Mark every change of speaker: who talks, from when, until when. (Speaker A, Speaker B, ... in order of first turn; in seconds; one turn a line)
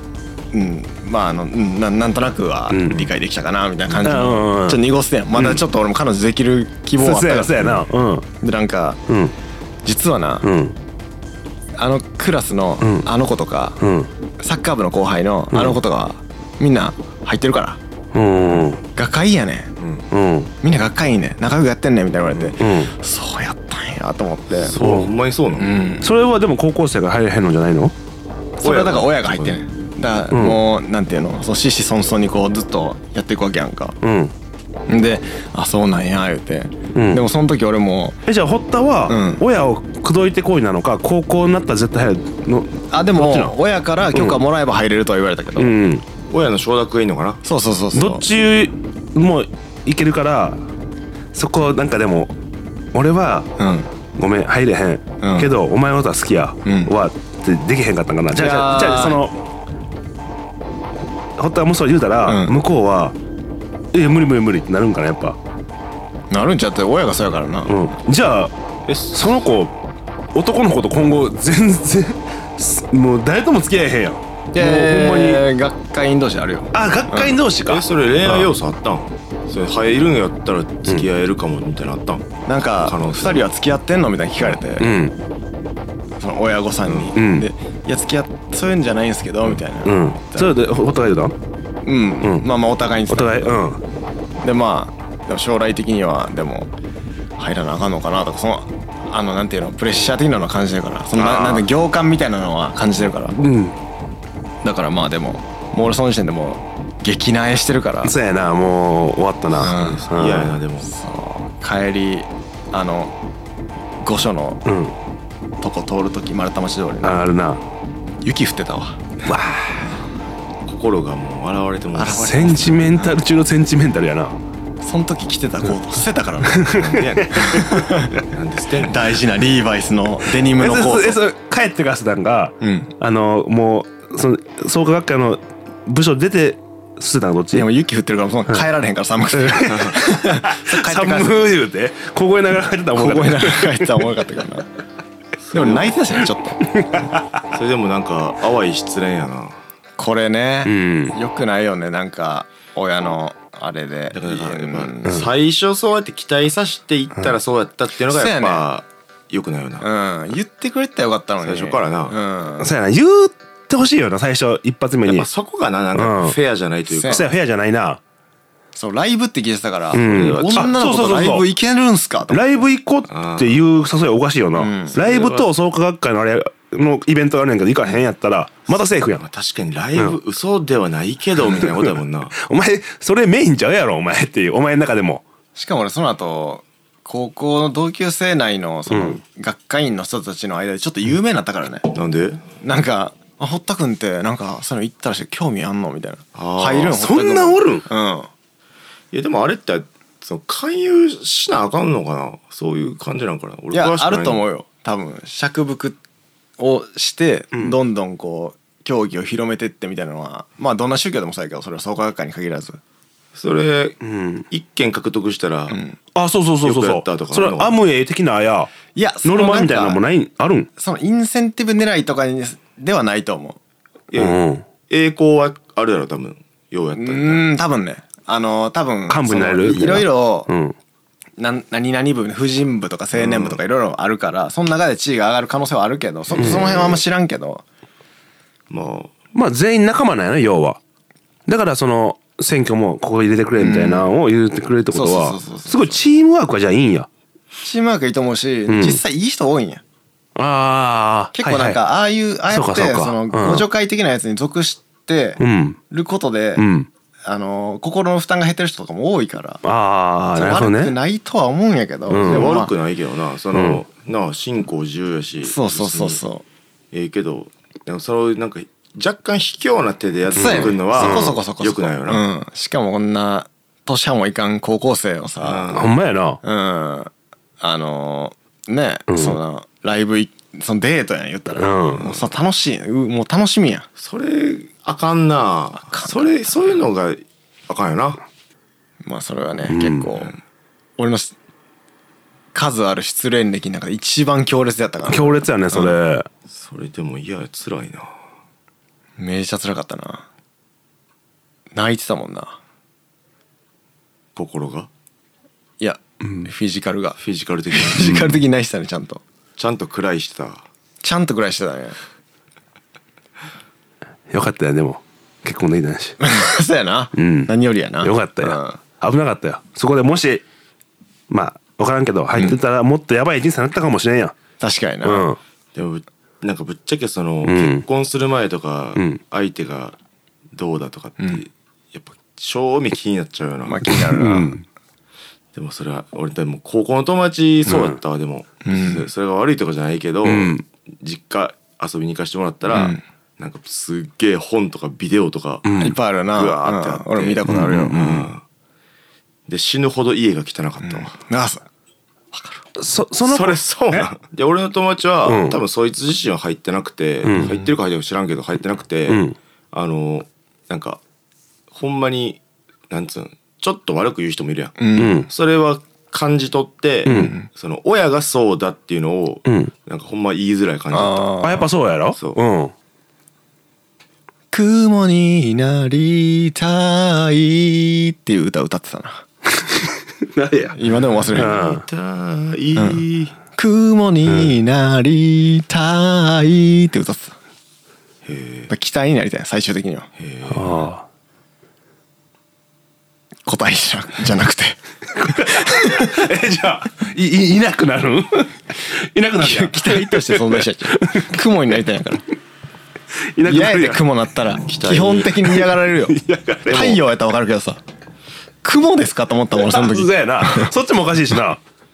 Speaker A: 0.5-7.9
Speaker B: 2.7-3.1
Speaker B: 4.0-4.8
Speaker B: 5.3-5.6
Speaker B: 7.0-8.2
Speaker A: 8.4-9.0
Speaker B: 9.1-9.3
Speaker A: 9.8-10.5
Speaker B: 10.4-10.7
Speaker A: 11.7-13.8
Speaker B: 12.8-13.1
Speaker B: 13.8-14.1
Speaker A: 14.4-17.8
Speaker B: 15.5-15.8
Speaker B: 18.1-18.8
Speaker A: 18.9-19.7
Speaker B: 20.1-20.5
Speaker A: 20.6-24.8
Speaker B: 22.6-22.9
Speaker C: 24.5-25.8
Speaker B: 24.8-25.1
Speaker A: 25.6-26.1
Speaker B: 26.0-27.9
Speaker A: 28.6-34.0
Speaker C: 28.6-29.6
Speaker B: 30.3-30.6
Speaker B: 34.0-34.3
Speaker A: 34.9-38.2
Speaker B: 36.9-37.2
Speaker B: 38.3-43.5
Speaker A: 39.1-39.4
Speaker A: 42.9-45.7
Speaker B: 44.1-44.4
Speaker B: 45.6-46.0
Speaker C: 46.3-47.4
Speaker A: 47.4-48.2
Speaker B: 47.9-50.7
Speaker B: 51.3-52.3
Speaker B: 52.9-53.5
Speaker A: 53.6-53.9
Speaker B: 54.1-59.4
Speaker A: 55.2-55.5
Speaker A: 56.6-56.9
Speaker A: 58.3-59.2
Speaker B: 61.4-63.1
Speaker A: 62.2-62.6
Speaker B: 63.9-65.4
Speaker A: 66.3-67.7
Speaker B: 67.7-68.5
Speaker C: 68.9-69.5
Speaker B: 69.1-69.7
Speaker B: 70.3-75.4
Speaker A: 74.5-77.4
Speaker B: 76.7-78.5
Speaker C: 77.7-82.2
Speaker A: 82.5-84.9
Speaker C: 82.8-83.5
Speaker B: 84.8-85.1
Speaker A: 86.2-90.5
Speaker B: 87.1-87.5
Speaker B: 89.8-91.3
Speaker A: 91.8-93.5
Speaker B: 93.1-93.8
Speaker A: 94.4-96.7
Speaker A: 97.4-103.4
Speaker B: 101.1-101.7
Speaker B: 103.3-103.8
Speaker A: 104.6-108.1
Speaker B: 108.0-110.6
Speaker A: 109.5-110.0
Speaker C: 109.6-110.9
Speaker A: 110.8-113.1
Speaker A: 114.0-114.6
Speaker B: 114.7-114.9
Speaker A: 115.6-117.2
Speaker B: 117.0-117.6
Speaker A: 118.2-119.0
Speaker B: 119.2-119.6
Speaker C: 120.7-122.4
Speaker A: 121.9-123.2
Speaker B: 122.0-124.3
Speaker A: 124.8-128.2
Speaker B: 126.5-128.2
Speaker C: 126.6-127.7
Speaker C: 128.3-129.0
Speaker A: 128.8-131.2
Speaker B: 130.4-137.7
Speaker A: 132.6-132.9
Speaker A: 137.5-141.5
Speaker B: 139.4-144.0
Speaker C: 139.7-139.9
Speaker A: 142.9-144.7
Speaker C: 145.4-146.0
Speaker A: 145.5-146.6
Speaker B: 146.6-147.4
Speaker C: 147.5-149.6
Speaker A: 150.0-155.3
Speaker B: 150.6-151.2
Speaker C: 154.1-159.9
Speaker A: 158.1-158.7
Speaker A: 159.8-162.7
Speaker C: 161.4-162.1
Speaker B: 162.6-165.3
Speaker C: 165.1-167.3
Speaker B: 165.9-166.4
Speaker A: 166.9-167.2
Speaker B: 167.1-168.0
Speaker A: 168.7-172.6
Speaker B: 169.9-171.5
Speaker C: 170.0-170.7
Speaker B: 172.3-179.2
Speaker C: 173.1-173.6
Speaker A: 174.5-175.0
Speaker C: 174.9-175.5
Speaker C: 179.2-182.3
Speaker B: 182.3-185.2
Speaker A: 185.5-191.9
Speaker B: 188.9-189.2
Speaker C: 191.9-192.5
Speaker A: 192.6-198.3
Speaker C: 196.3-197.0
Speaker B: 196.9-197.8
Speaker C: 199.1-204.4
Speaker A: 203.7-206.0
Speaker A: 206.6-212.8
Speaker C: 213.3-214.0
Speaker B: 214.0-214.4
Speaker C: 214.5-215.8
Speaker A: 215.7-216.0
Speaker B: 216.1-218.7
Speaker C: 216.6-217.8
Speaker A: 218.9-220.0
Speaker B: 219.2-220.7
Speaker A: 220.8-223.6
Speaker C: 224.1-227.5
Speaker B: 224.2-224.6
Speaker A: 226.9-230.5
Speaker B: 229.1-230.8
Speaker A: 231.4-237.6
Speaker C: 233.1-233.6
Speaker C: 236.3-237.0
Speaker B: 236.3-236.9
Speaker C: 238.7-239.1
Speaker B: 239.3-240.8
Speaker B: 241.5-247.1
Speaker A: 243.6-244.1
Speaker A: 244.9-246.0
Speaker A: 247.6-249.8
Speaker B: 248.7-249.0
Speaker B: 250.3-251.8
Speaker A: 251.3-256.6
Speaker B: 252.5-253.7
Speaker B: 255.4-255.8
Speaker B: 256.6-256.9
Speaker A: 257.2-259.6
Speaker B: 259.6-260.9
Speaker A: 260.3-262.7
Speaker B: 262.1-262.5
Speaker C: 262.2-266.2
Speaker B: 263.5-263.8
Speaker A: 265.4-266.4
Speaker C: 266.9-272.2
Speaker A: 270.3-275.7
Speaker B: 270.4-271.3
Speaker C: 275.4-275.9
Speaker B: 275.7-276.4
Speaker A: 276.4-283.9
Speaker B: 279.1-279.4
Speaker B: 281.6-282.1
Speaker C: 284.0-288.2
Speaker A: 285.9-286.8
Speaker A: 289.0-290.3
Speaker B: 289.7-290.1
Speaker A: 291.0-291.3
Speaker A: 292.5-296.0
Speaker B: 295.1-296.3
Speaker C: 296.5-298.1
Speaker A: 299.2-300.3
Speaker A: 301.7-302.6
Speaker C: 304.4-304.9
Speaker A: 305.8-307.2
Speaker C: 307.2-308.4
Speaker A: 307.7-309.2
Speaker C: 309.6-310.6
Speaker A: 311.0-312.0
Speaker B: 314.3-316.2
Speaker A: 316.2-318.8
Speaker B: 317.1-320.4
Speaker B: 321.3-324.4
Speaker A: 324.6-325.3
Speaker B: 325.0-325.4
Speaker C: 325.7-329.9
Speaker B: 327.4-327.9
Speaker C: 330.5-334.0
Speaker A: 333.6-334.6
Speaker B: 334.1-334.6
Speaker C: 335.5-345.7
Speaker B: 337.6-338.0
Speaker A: 338.6-339.1
Speaker B: 340.2-340.6
Speaker A: 342.7-343.0
Speaker B: 345.6-346.0
Speaker A: 345.8-348.3
Speaker C: 346.3-348.4
Speaker B: 347.5-347.9
Speaker C: 349.5-351.1
Speaker A: 350.8-351.6
Speaker A: 352.3-352.6
Speaker B: 352.8-354.1
Speaker C: 353.2-361.0
Speaker B: 355.2-355.6
Speaker B: 357.2-357.5
Speaker B: 359.1-359.4
Speaker C: 361.7-371.4
Speaker A: 364.8-365.2
Speaker B: 365.0-365.3
Speaker B: 367.1-367.3
Speaker A: 367.1-367.4
Speaker B: 369.4-369.7
Speaker A: 370.9-371.7
Speaker B: 371.4-372.7
Speaker A: 374.5-379.2
Speaker B: 379.6-380.8
Speaker A: 380.7-381.6
Speaker C: 381.3-383.3
Speaker B: 381.3-381.8
Speaker A: 382.8-383.0
Speaker A: 383.6-387.4
Speaker B: 384.2-384.5
Speaker C: 388.2-388.7
Speaker A: 388.7-390.1
Speaker C: 390.2-390.9
Speaker B: 390.5-391.0
Speaker A: 393.4-394.8
Speaker B: 395.1-401.4
Speaker A: 395.4-396.2
Speaker A: 399.4-402.2
Speaker B: 403.3-404.0
Speaker A: 403.4-407.8
Speaker C: 404.6-405.4
Speaker B: 405.4-407.0
Speaker A: 408.6-410.7
Speaker B: 409.6-411.6